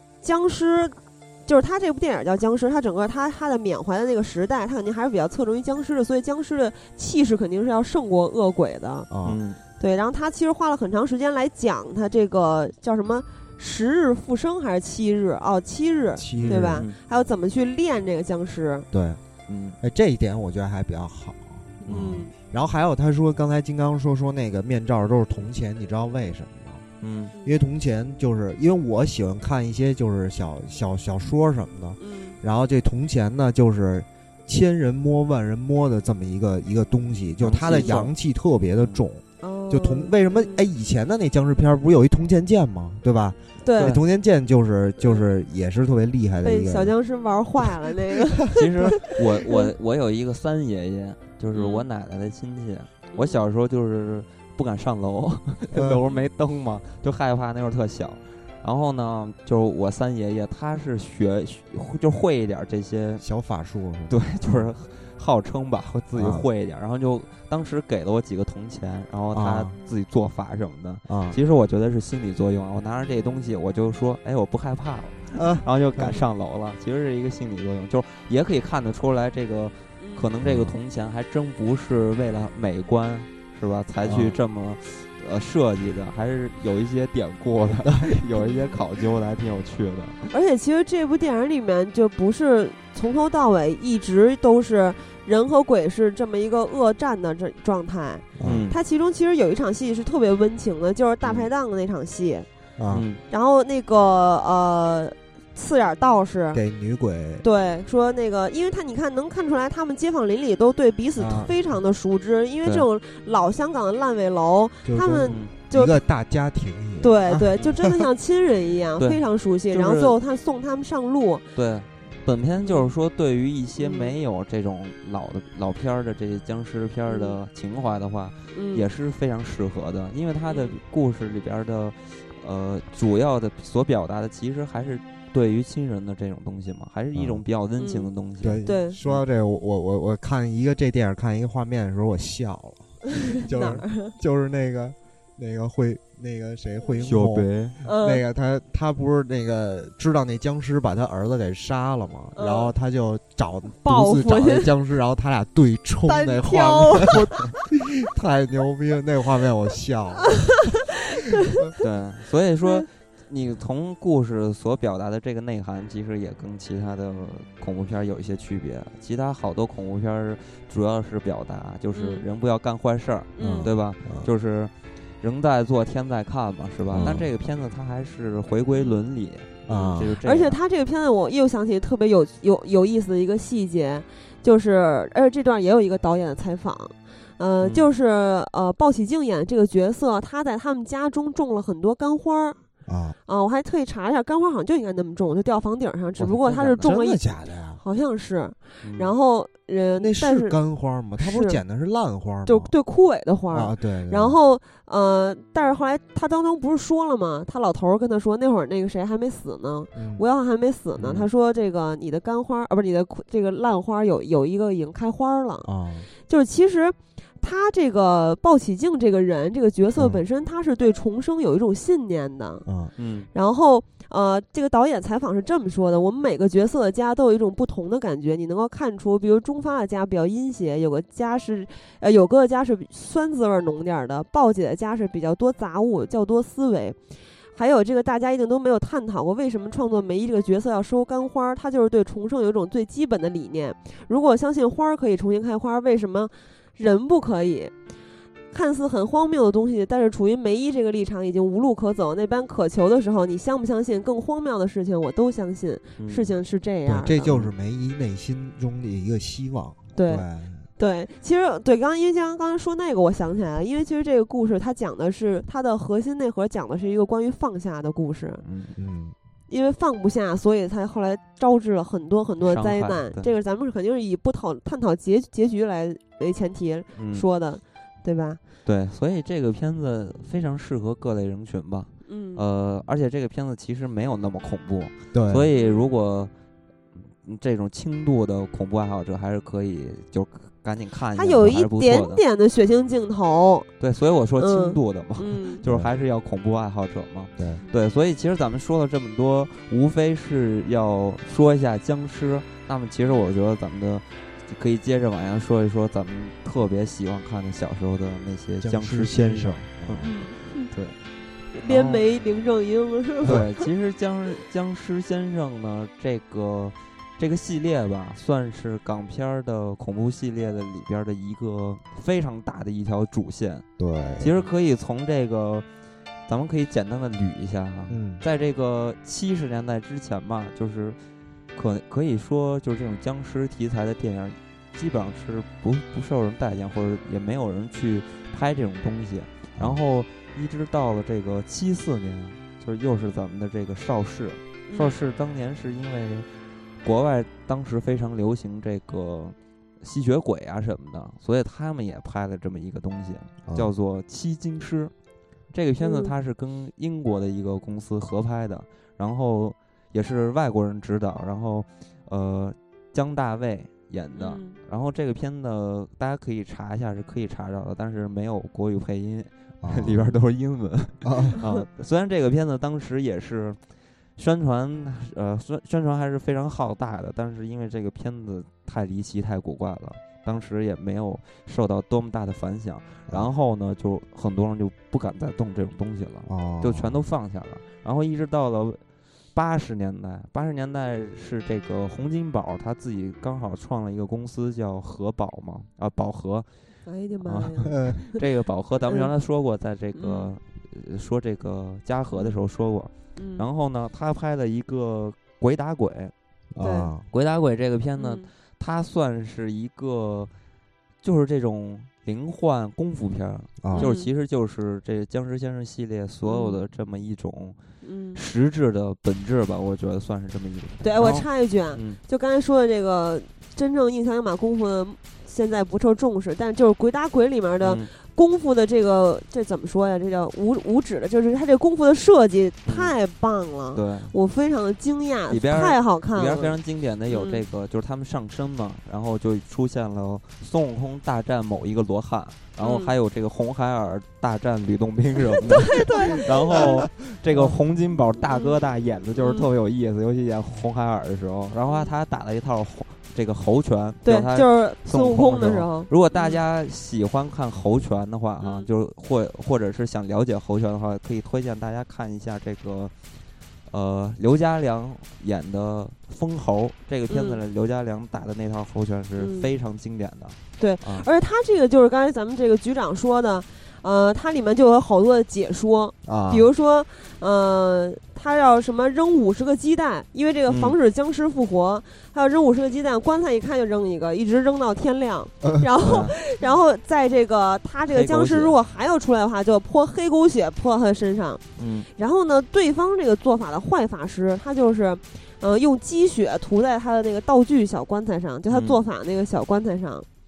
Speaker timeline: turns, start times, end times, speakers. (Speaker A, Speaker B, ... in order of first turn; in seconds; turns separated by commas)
Speaker A: 0.2-9.1, Speaker B: 9.1-9.4, Speaker C: 9.2-9.6, Speaker A: 9.8-18.9, Speaker B: 16.2-16.9, Speaker C: 16.4-17.0, Speaker B: 18.9-19.2, Speaker C: 19.5-19.8, Speaker B: 19.8-26.9, Speaker A: 21.8-22.3, Speaker C: 21.9-22.2, Speaker C: 27.0-27.3, Speaker B: 27.4-46.9, Speaker A: 32.0-32.4, Speaker C: 37.4-38.1, Speaker A: 39.4-40.6, Speaker A: 43.6-44.0, Speaker A: 46.4-49.7, Speaker C: 48.5-63.2, Speaker A: 51.5-51.9, Speaker A: 53.1-53.4, Speaker B: 55.7-56.0, Speaker B: 63.2-64.7, Speaker C: 64.1-90.3, Speaker B: 66.1-66.5, Speaker B: 69.3-69.7, Speaker B: 71.1-71.4, Speaker B: 75.3-76.2, Speaker A: 80.0-80.3, Speaker B: 80.4-80.8, Speaker B: 84.0-84.4, Speaker A: 88.4-88.8, Speaker A: 90.3-102.5, Speaker B: 98.4-98.7, Speaker C: 98.4-98.8, Speaker C: 101.2-101.5, Speaker B: 102.8-103.1, Speaker C: 102.9-103.2, Speaker A: 103.3-106.6, Speaker B: 106.5-107.4, Speaker A: 107.4-115.9, Speaker B: 111.2-111.5, Speaker B: 114.8-117.9, Speaker C: 115.2-115.5, Speaker A: 117.0-121.4, Speaker C: 119.0-120.2, Speaker C: 121.5-139.2, Speaker A: 122.6-122.9, Speaker A: 123.8-124.2, Speaker A: 127.1-127.4, Speaker A: 128.5-128.8, Speaker A: 130.5-130.8, Speaker B: 137.1-137.4, Speaker A: 137.8-138.1, Speaker B: 138.4-160.5, Speaker A: 138.6-139.0, Speaker A: 143.1-144.1, Speaker C: 147.0-147.8, Speaker A: 147.8-148.2, Speaker A: 152.3-152.7, Speaker A: 153.8-154.7, Speaker A: 156.1-157.2, Speaker C: 157.1-157.5, Speaker C: 161.8-180.6, Speaker A: 171.9-172.2, Speaker A: 173.3-173.7, Speaker B: 173.4-174.3, Speaker B: 176.9-177.3, Speaker A: 178.7-179.0, Speaker B: 179.7-180.1, Speaker A: 180.2-192.6, Speaker C: 187.6-187.9, Speaker B: 192.8-193.2, Speaker A: 193.3-197.2, Speaker C: 196.2-196.9, Speaker B: 196.8-197.8, Speaker A: 197.8-200.6, Speaker C: 198.8-199.1, Speaker B: 200.0-202.7, Speaker A: 201.2-201.6, Speaker A: 202.5-215.7, Speaker B: 203.5-204.4, Speaker B: 209.9-210.2, Speaker C: 211.0-211.3, Speaker B: 215.6-216.1, Speaker A: 216.2-222.6, Speaker B: 222.7-222.9, Speaker C: 223.0-223.3, Speaker A: 223.3-237.0, Speaker A: 237.5-247.7, Speaker A: 248.5-257.3, Speaker C: 256.0-256.3, Speaker B: 256.9-260.7, Speaker C: 257.3-257.5, Speaker A: 259.9-260.2, Speaker A: 260.8-268.4, Speaker C: 268.4-268.8, Speaker B: 268.8-269.1, Speaker A: 269.5-278.4, Speaker C: 272.4-273.3, Speaker C: 277.0-277.2, Speaker C: 278.6-286.3, Speaker A: 282.1-282.4, Speaker B: 285.1-285.5, Speaker A: 285.5-285.9, Speaker C: 287.0-292.2, Speaker A: 291.1-293.7, Speaker C: 293.8-310.1, Speaker A: 294.4-295.6, Speaker B: 295.6-295.9, Speaker B: 297.4-297.6, Speaker A: 303.0-303.3, Speaker B: 308.6-310.1, Speaker A: 310.0-310.7, Speaker C: 310.7-311.0, Speaker A: 311.5-313.6, Speaker C: 311.6-312.0, Speaker C: 313.2-323.6, Speaker B: 323.8-324.4, Speaker C: 324.2-325.6, Speaker C: 326.3-331.0, Speaker B: 327.9-328.2, Speaker C: 331.5-346.3, Speaker A: 344.7-345.0, Speaker C: 346.8-354.9, Speaker B: 353.4-353.7, Speaker C: 355.5-373.6, Speaker A: 355.8-356.1, Speaker A: 364.1-364.6, Speaker B: 369.6-370.2, Speaker B: 371.0-371.4, Speaker C: 374.2-388.8, Speaker B: 386.3-387.0, Speaker C: 389.3-396.5, Speaker A: 396.9-398.2, Speaker C: 397.2-406.1, Speaker B: 397.6-398.0, Speaker A: 399.9-400.3, Speaker A: 403.1-403.5, Speaker B: 406.5-407.1, Speaker A: 406.6-406.9, Speaker C: 407.1-410.3, Speaker A: 408.0-408.3, Speaker C: 411.0-417.6, Speaker B: 413.6-413.9, Speaker A: 413.8-414.1, Speaker A: 416.2-416.6, Speaker A: 417.8-418.2, Speaker C: 418.1-422.0, Speaker A: 420.8-436.6, Speaker C: 427.6-427.9, Speaker C: 432.6-432.9, Speaker C: 433.7-434.1, Speaker C: 435.3-462.9, Speaker A: 437.1-437.4, Speaker A: 442.6-442.9, Speaker A: 445.4-446.9, Speaker A: 449.2-449.5, Speaker A: 451.6-451.9, Speaker A: 454.0-456.4, Speaker A: 458.4-458.7, Speaker C: 463.7-471.1, Speaker A: 467.1-467.4, Speaker A: 469.2-469.5, Speaker A: 470.6-491.4, Speaker B: 476.0-476.5, Speaker C: 480.5-480.8, Speaker C: 485.8-486.1, Speaker C: 487.9-488.5, Speaker C: 491.6-491.9, Speaker A: 491.9-500.1, Speaker C: 498.5-498.8